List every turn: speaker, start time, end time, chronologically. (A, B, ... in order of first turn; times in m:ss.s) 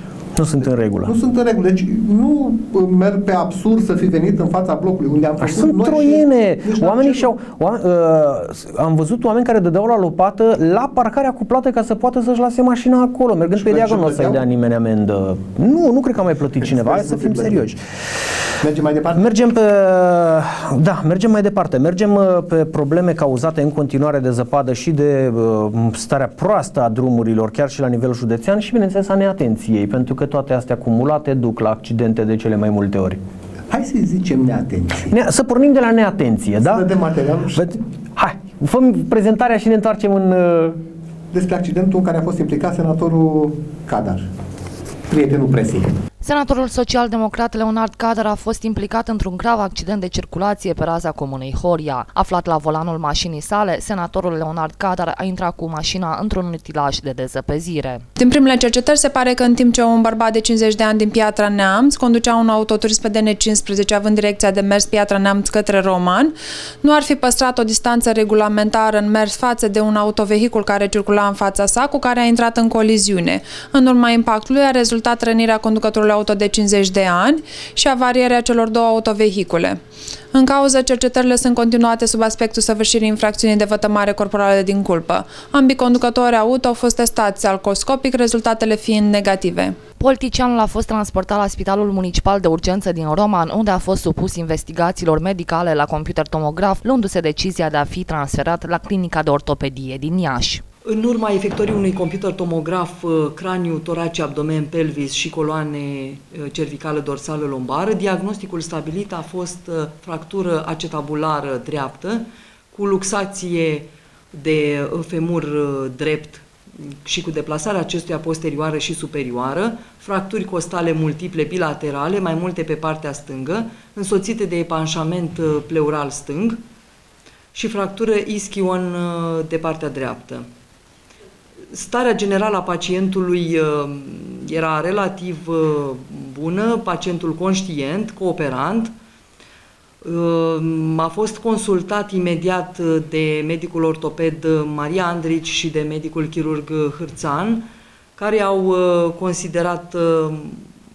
0:00.4-0:01.1 A
0:01.0-0:07.3 B
0:05.4-0:17.8 A
0:13.5-0:14.4 B
0:16.6-0:17.7 B
0:18.6-0:19.3 B
0:19.2-0:33.2 A
0:33.7-0:35.2 B
0:35.1-0:36.9 A
0:36.6-0:37.7 B
0:37.6-0:40.8 A
0:41.3-0:44.3 B
0:45.1-0:45.9 B
0:46.2-0:58.0 C
0:58.2-1:19.8 D
1:20.3-1:29.8 D
1:30.0-1:40.6 C
1:40.9-2:06.6 E
2:07.5-2:10.5 E
2:11.7-2:18.9 E
2:20.0-2:30.7 E